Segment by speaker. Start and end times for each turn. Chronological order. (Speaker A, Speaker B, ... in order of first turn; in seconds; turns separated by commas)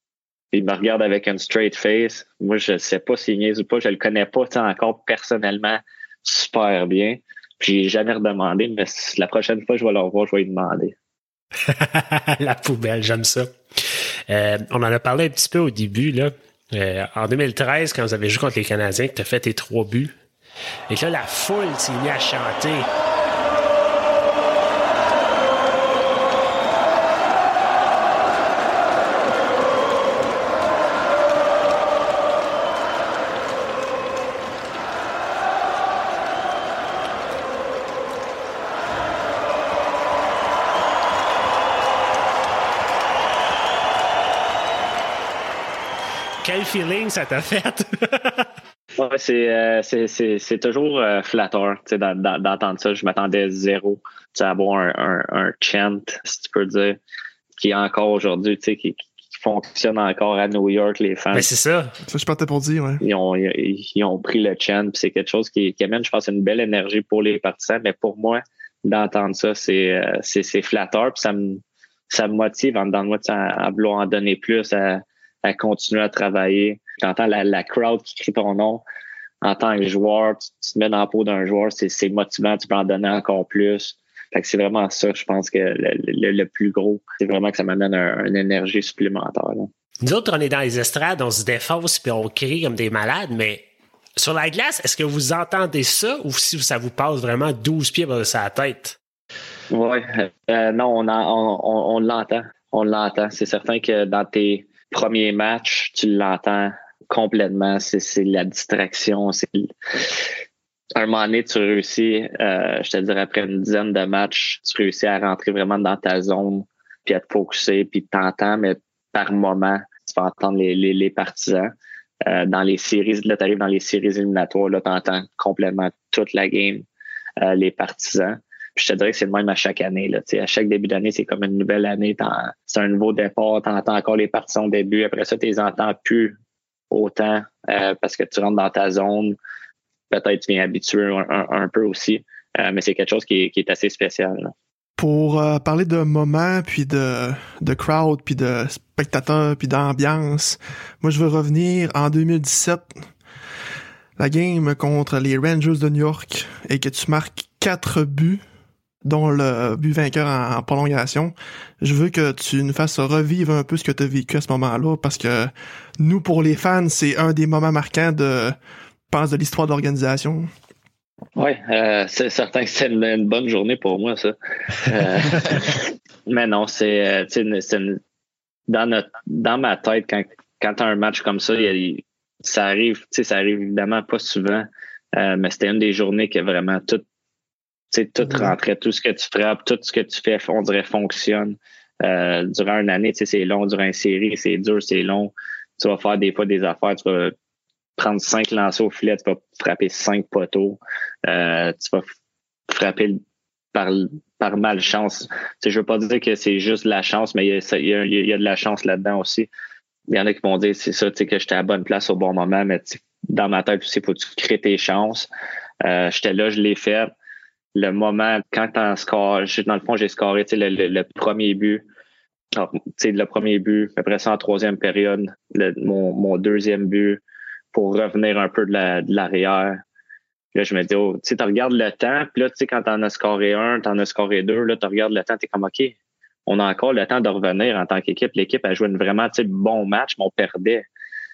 Speaker A: 0.5-10.9, Speaker B: 11.7-13.5, Speaker B: 14.3-20.1, Speaker B: 20.9-22.9, Speaker B: 46.4-48.5, Speaker A: 48.9-57.0, Speaker A: 57.6-61.5, Speaker B: 61.3-61.9, Speaker C: 62.1-63.0, Speaker A: 63.0-78.8, Speaker A: 79.4-89.7, Speaker B: 90.0-93.7, Speaker B: 94.2-99.0, Speaker A: 99.7-109.7, Speaker A: 111.0-126.9, Speaker A: 127.4-136.3, Speaker A: 136.9-139.4, Speaker A: 140.1-144.5, Speaker C: 145.0-153.0, Speaker C: 154.2-158.4, Speaker C: 159.0-168.6, Speaker C: 169.1-170.5, Speaker A: 171.4-178.0, Speaker A: 178.7-187.0, Speaker A: 187.9-197.3, Speaker A: 198.0-202.1, Speaker A: 202.7-203.2, Speaker A: 203.7-209.5, Speaker A: 210.1-215.3, Speaker A: 215.8-217.1, Speaker A: 217.8-221.8, Speaker A: 222.5-227.2, Speaker A: 227.7-229.8, Speaker A: 230.5-235.9, Speaker A: 236.5-240.8